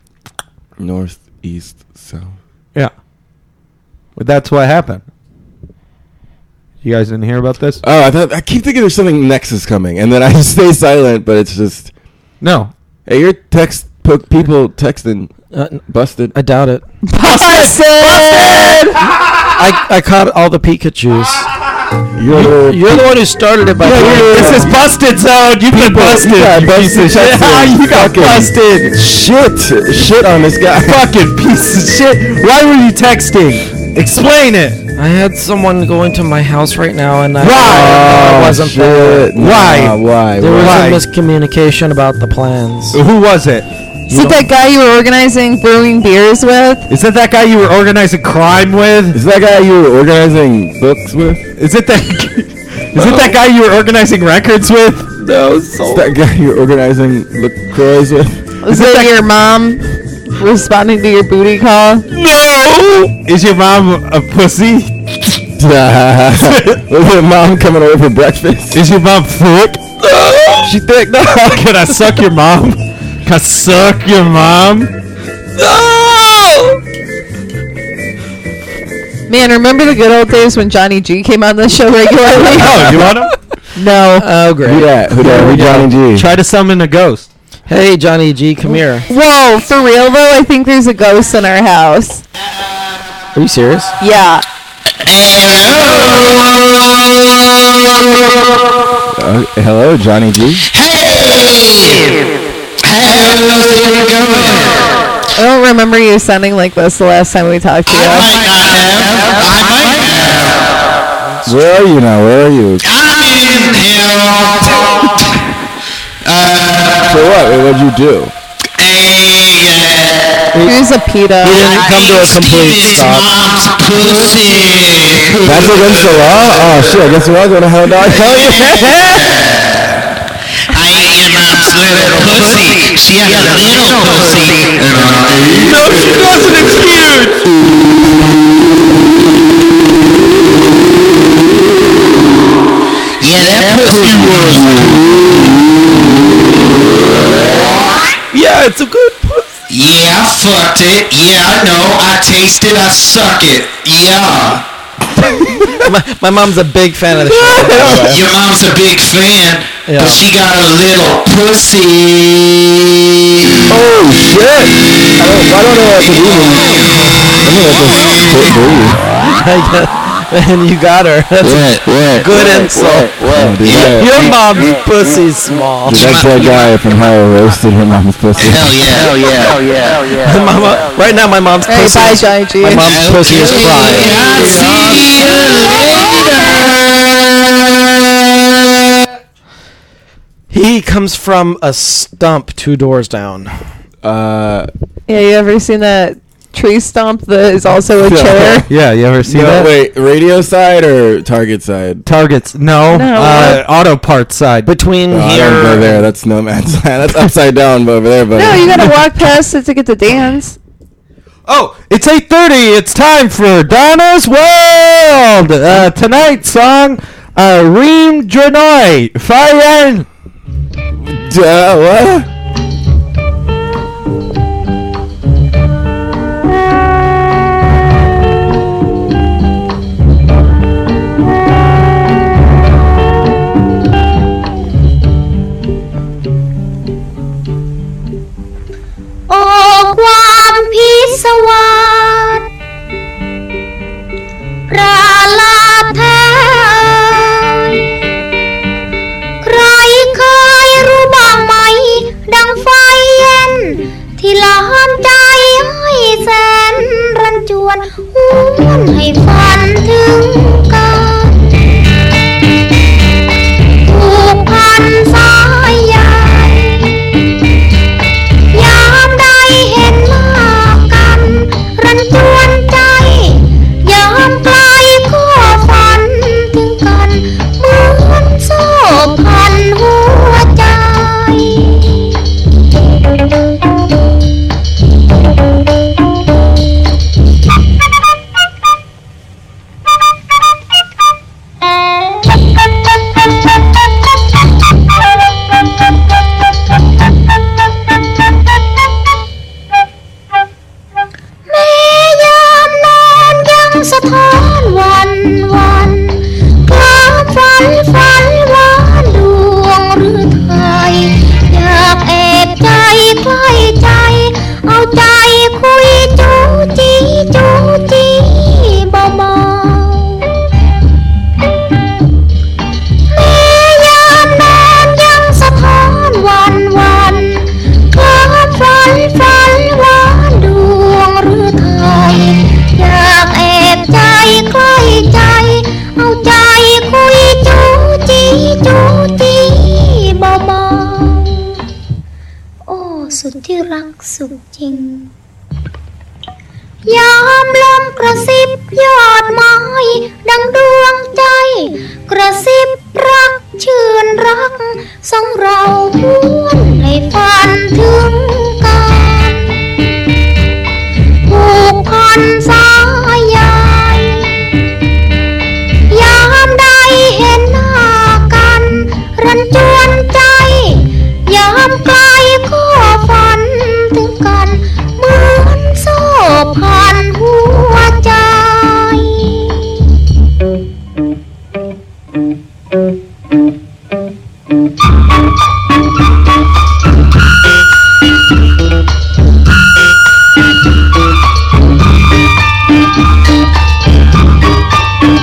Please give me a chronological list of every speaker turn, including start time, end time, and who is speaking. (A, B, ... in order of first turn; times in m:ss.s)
0:00.8-0:02.4 A
0:04.2-0:05.0 B
0:06.8-0:07.8 B
0:07.8-0:11.9 A
0:12.4-0:12.7 B
0:13.1-0:15.3 A
0:15.5-0:15.8 C
0:15.9-0:16.4 A
0:16.3-0:16.8 C
0:17.1-0:18.8 D
0:17.2-0:19.5 B
0:19.6-0:21.5 C
0:22.2-0:23.0 A
0:22.3-0:24.7 C
0:23.8-0:24.7 A
0:23.8-0:28.7 B
0:25.7-0:31.1 A
0:27.2-0:27.4 C
0:30.8-0:34.8 B
0:35.0-0:39.3 C
0:37.4-0:38.1 B
0:37.7-0:40.9 A
0:39.4-0:40.0 B
0:40.4-0:43.0 C
0:40.6-0:41.0 B
0:42.9-0:43.7 B
0:44.1-0:44.4 C
0:44.1-0:46.9 D
0:46.9-0:49.2 B
0:49.1-0:51.5 A
0:51.6-0:55.2 B
0:55.2-0:56.1 C
0:55.9-0:58.5 A
0:58.6-1:02.1 D
0:58.7-0:59.2 B
1:02.4-1:03.0 C
1:03.1-1:05.4 B
1:05.6-1:08.8 A
1:06.4-1:06.8 B
1:08.7-1:09.8 B
1:10.0-1:10.7 C
1:10.6-1:11.7 A
1:11.2-1:14.9 B
1:15.6-1:16.8 C
1:19.3-1:23.0 D
1:22.3-1:23.3 C
1:22.4-1:23.3 B
1:23.8-1:24.3 D
1:24.2-1:25.9 C
1:24.6-1:26.3 A
1:25.5-1:27.3 B
1:27.7-1:29.0 C
1:29.1-1:32.2 D
1:33.4-1:34.0 C
1:34.0-1:34.4 D
1:35.0-1:37.1 E
1:37.9-1:38.3 E
1:39.2-1:40.6 A
1:40.7-1:42.2 E
1:42.8-1:44.9 E
1:45.4-1:48.4 D
1:47.9-1:50.8 E
1:51.4-1:52.8 A
1:52.8-1:55.3 E
1:56.2-1:57.2 E
1:57.1-1:58.3 A
1:58.8-2:00.4 E
2:00.5-2:00.8 C
2:00.6-2:01.7 D
2:01.4-2:03.3 C
2:01.5-2:06.2 E
2:05.4-2:09.2 A
2:08.1-2:09.9 E
2:10.7-2:15.7 E
2:15.6-2:17.4 B
2:23.2-2:24.9 E
2:28.3-2:29.6 C
2:29.7-2:34.6 E
2:35.2-2:38.2 C
2:35.5-2:35.9 A
2:37.2-2:38.2 A
2:37.8-2:42.9 E
2:39.9-2:40.2 C
2:43.7-2:46.8 A
2:46.0-2:46.8 E
2:47.4-2:49.0 A
2:48.2-2:48.5 E
2:49.4-2:53.2 C
2:51.4-2:52.2 E
2:53.3-2:54.3 A
2:53.6-2:54.3 E
2:53.8-2:56.1 C
2:55.9-2:58.8 A
2:55.9-2:56.6 E
2:58.4-2:59.6 E
3:00.1-3:04.2 C
3:01.7-3:03.0 D
3:02.7-3:07.5 E
3:10.5-3:13.5 C
3:14.0-3:14.7 A
3:15.1-3:18.7 D
3:18.0-3:18.7 A
3:18.7-3:19.7 B
3:19.2-3:22.0 A
3:22.1-3:24.7 B
3:22.9-3:23.6 D
3:24.7-3:26.0 C
3:25.1-3:29.0 A
3:28.3-3:30.6 D
3:31.5-3:40.1 B
3:41.0-3:42.3 A
3:59.3-4:02.5 F
4:04.7-4:08.0 F
4:09.4-4:21.5 F
4:23.8-4:27.2 F
4:28.5-4:42.1 F
5:01.5-5:20.4 F
5:23.1-5:41.6 F
5:42.7-5:45.1 F
5:46.9-5:59.8 F
6:01.3-6:04.5 F
6:05.9-6:19.8 F